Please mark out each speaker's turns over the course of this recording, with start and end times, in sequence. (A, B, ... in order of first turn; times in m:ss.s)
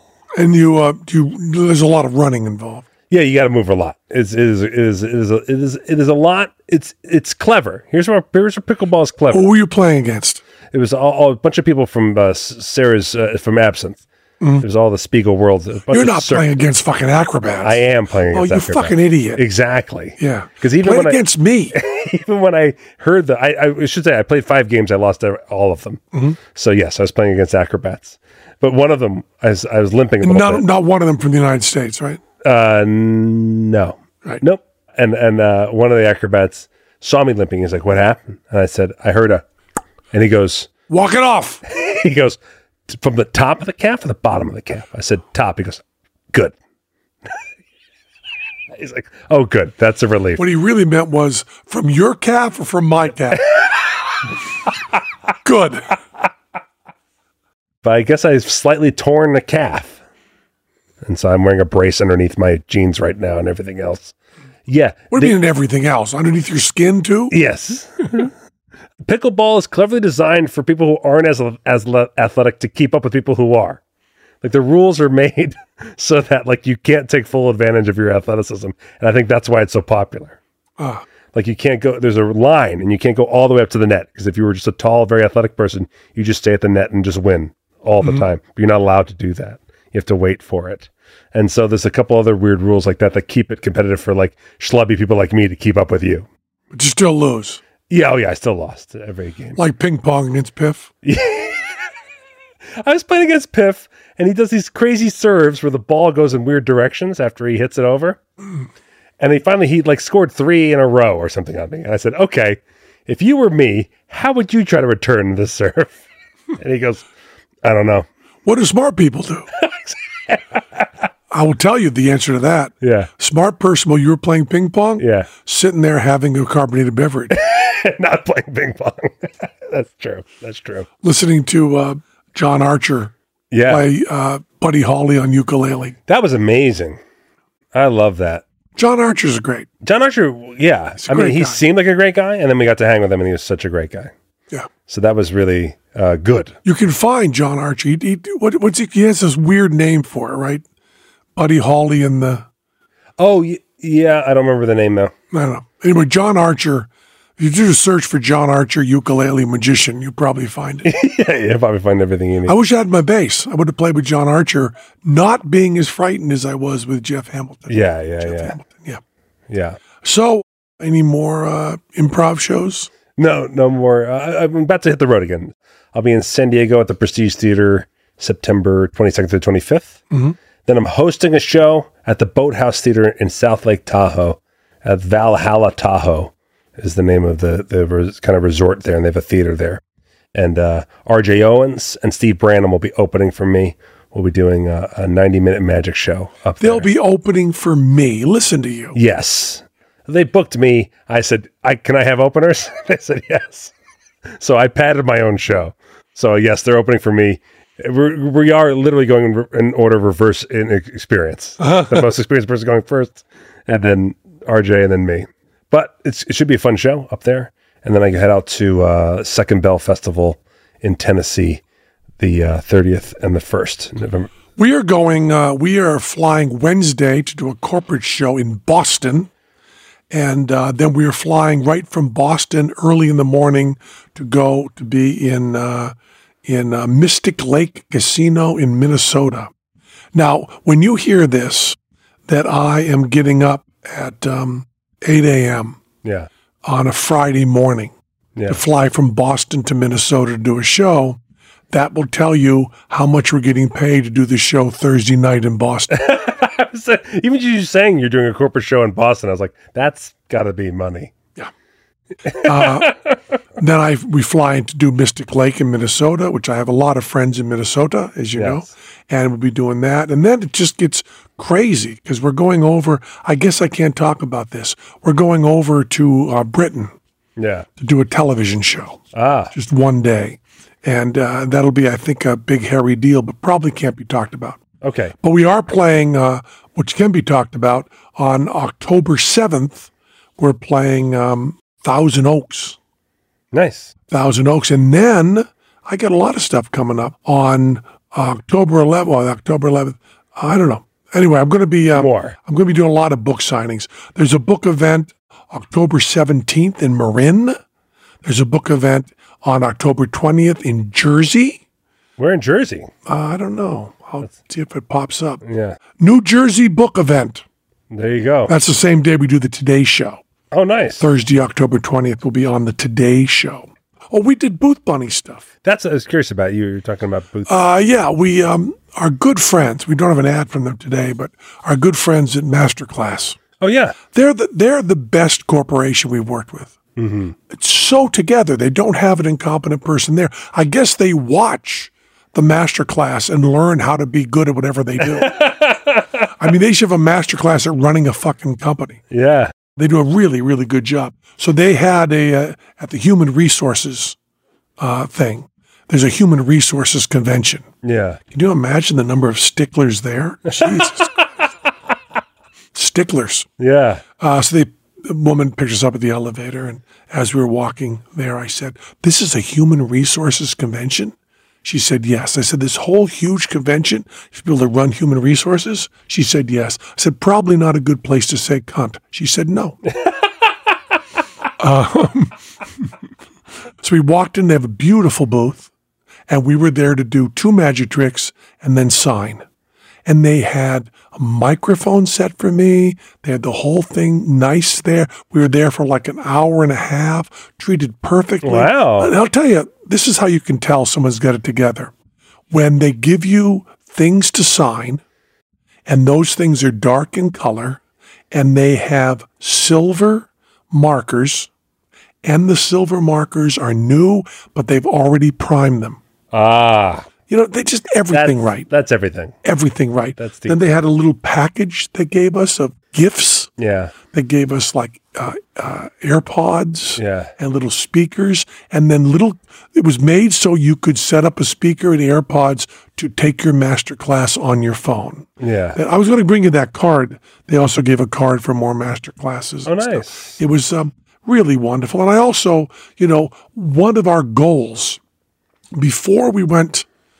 0:00.4-0:02.9 A
0:03.1-0:09.5 B
0:09.3-0:10.4 A
0:10.7-0:14.0 B
0:14.4-0:14.6 A
0:14.6-0:16.5 B
0:15.9-0:19.4 A
0:17.6-0:30.6 B
0:20.2-0:21.7 A
0:30.2-0:32.2 A
0:32.4-0:39.4 B
0:40.1-0:40.7 B
0:40.9-0:41.6 A
0:41.6-0:45.8 B
0:48.7-0:50.4 B
0:50.4-0:53.4 A
0:55.4-0:55.9 A
0:57.8-1:00.0 B
1:01.0-1:04.1 B
1:04.7-1:05.4 B
1:05.1-1:07.3 A
1:07.3-1:08.3 B
1:09.0-1:13.8 B
1:14.4-1:20.4 B
1:20.8-1:21.0 A
1:21.3-1:36.3 B
1:36.7-1:37.6 A
1:37.9-1:39.6 B
1:39.6-1:40.9 A
1:41.0-1:41.8 B
1:42.8-1:48.2 B
1:49.2-1:56.0 B
1:56.6-1:57.0 B
1:57.6-1:58.0 B
1:58.4-1:59.5 A
1:59.6-2:00.6 B
2:01.3-2:07.3 A
2:02.8-2:03.1 B
2:05.0-2:05.3 B
2:07.3-2:10.9 B
2:11.0-2:13.1 A
2:13.5-2:13.9 B
2:13.7-2:16.0 A
2:16.1-2:17.0 B
2:17.7-2:18.4 B
2:18.8-2:19.7 A
2:19.8-2:24.1 B
2:21.0-2:21.6 A
2:24.9-2:26.6 B
2:26.6-2:30.6 A
2:31.3-2:32.5 A
2:33.2-2:35.1 B
2:35.3-2:40.9 A
2:40.8-2:42.6 B
2:42.4-2:49.0 A
2:47.7-2:48.6 B
2:49.5-2:49.8 B
2:50.0-2:52.9 A
2:53.2-3:00.0 B
3:00.1-3:00.4 A
3:00.6-3:09.8 B
3:10.3-3:16.9 B
3:16.6-3:19.0 A
3:18.9-3:23.7 B
3:24.4-3:41.6 B
3:31.6-3:32.0 A
3:42.2-3:44.3 B
3:44.6-3:49.3 A
3:50.1-3:55.9 A
3:56.4-3:59.5 A
4:00.1-4:05.8 A
4:06.0-4:06.3 B
4:06.6-4:07.9 A
4:08.5-4:11.2 A
4:11.7-4:15.9 A
4:15.9-4:21.1 B
4:22.2-4:23.1 B
4:22.3-4:22.9 A
4:23.6-4:36.9 A
4:28.3-4:28.7 B
4:37.4-4:37.7 B
4:37.8-4:39.0 A
4:39.1-4:39.5 B
4:39.5-4:44.6 A
4:44.8-4:45.1 B
4:45.2-4:52.8 A
4:53.5-4:53.9 B
4:54.1-5:07.6 A
5:01.9-5:02.4 B
5:08.2-5:11.6 A
5:12.2-5:12.9 B
5:13.0-5:15.4 A
5:15.4-5:15.8 B
5:16.0-5:17.4 A
5:17.9-5:18.5 B
5:18.5-5:20.2 A
5:20.5-5:21.1 B
5:21.0-5:25.4 A
5:25.6-5:27.6 B
5:27.5-5:33.4 A
5:33.6-5:34.0 B
5:34.1-5:36.8 A
5:37.0-5:37.4 B
5:37.5-5:45.4 A
5:45.1-5:46.3 B
5:46.4-5:49.0 A
5:49.1-5:49.5 B
5:49.8-5:54.2 A
5:54.8-5:57.6 A
5:57.8-5:58.2 B
5:58.3-6:01.1 A
6:00.5-6:01.0 B
6:02.7-6:03.5 A
6:03.6-6:04.0 B
6:04.2-6:19.8 A
6:21.6-6:22.4 A
6:23.8-6:25.7 A
6:26.3-6:29.4 A
6:30.0-6:41.9 A
6:38.4-6:39.2 B
6:42.5-6:45.0 A
6:45.9-6:47.8 A
6:48.3-6:51.5 A
6:52.2-6:56.0 A
6:56.3-6:57.1 B
6:57.3-6:58.7 A
6:58.1-6:59.4 B
6:59.4-7:03.5 A
7:00.2-7:00.6 B
7:03.6-7:03.9 B
7:04.1-7:25.0 A
7:07.0-7:07.3 B
7:15.4-7:15.8 B
7:19.6-7:20.4 B
7:25.7-7:26.9 A